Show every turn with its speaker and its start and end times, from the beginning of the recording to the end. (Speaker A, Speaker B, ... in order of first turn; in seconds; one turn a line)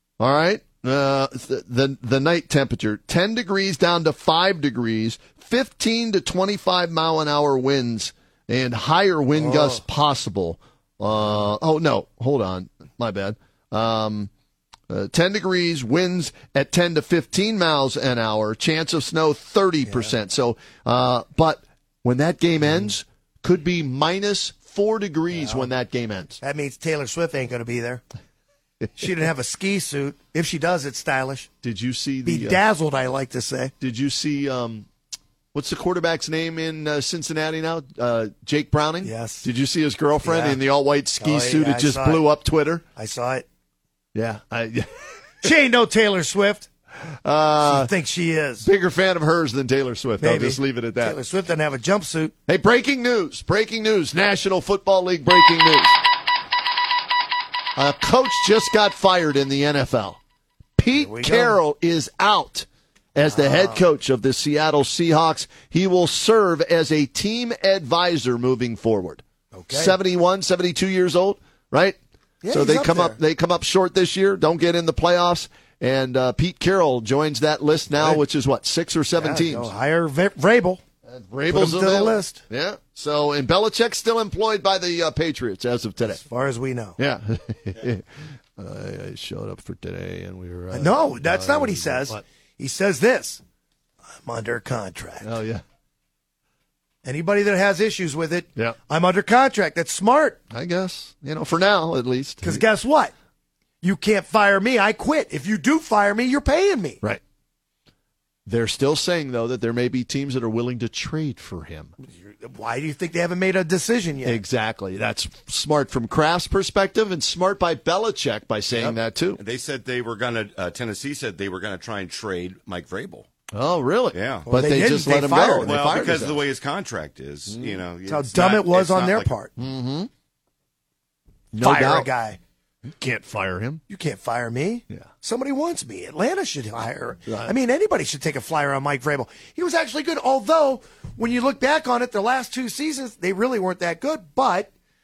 Speaker A: 0.2-14.3
Speaker B: 9.4-9.8
Speaker A: 14.9-26.4
Speaker B: 19.9-20.1
Speaker B: 25.4-25.7
Speaker B: 26.4-28.0
Speaker B: 29.0-31.5
Speaker A: 31.6-32.6
Speaker B: 32.2-33.7
Speaker A: 33.8-34.9
Speaker A: 35.5-42.8
Speaker B: 39.0-39.5
Speaker B: 40.2-40.6
Speaker B: 41.2-42.3
Speaker B: 43.0-43.5
Speaker A: 44.1-45.5
Speaker B: 45.4-46.7
Speaker A: 47.0-47.9
Speaker B: 47.6-48.7
Speaker A: 48.6-51.2
Speaker B: 50.2-52.3
Speaker A: 52.5-56.0
Speaker A: 57.8-60.2
Speaker A: 60.8-72.0
Speaker B: 60.9-61.6
Speaker B: 63.2-63.8
Speaker B: 69.5-70.0
Speaker B: 72.4-73.2
Speaker A: 72.5-79.7
Speaker B: 79.2-80.8
Speaker A: 81.0-86.2
Speaker B: 81.5-82.4
Speaker B: 86.1-87.0
Speaker A: 87.0-92.2
Speaker B: 90.7-93.4
Speaker B: 94.2-95.3
Speaker A: 95.2-95.6
Speaker B: 97.0-100.4
Speaker A: 100.5-102.6
Speaker B: 102.4-103.1
Speaker B: 103.8-107.0
Speaker A: 108.5-111.9
Speaker B: 112.2-114.4
Speaker A: 114.2-119.4
Speaker C: 118.7-123.3
Speaker A: 123.5-126.4
Speaker C: 124.1-124.5
Speaker B: 124.5-125.8
Speaker C: 125.6-129.3
Speaker A: 127.5-127.8
Speaker B: 128.1-129.5
Speaker A: 129.6-130.1
Speaker A: 131.5-132.1
Speaker B: 131.6-132.4
Speaker A: 132.9-133.8
Speaker B: 133.9-144.7
Speaker A: 137.3-137.5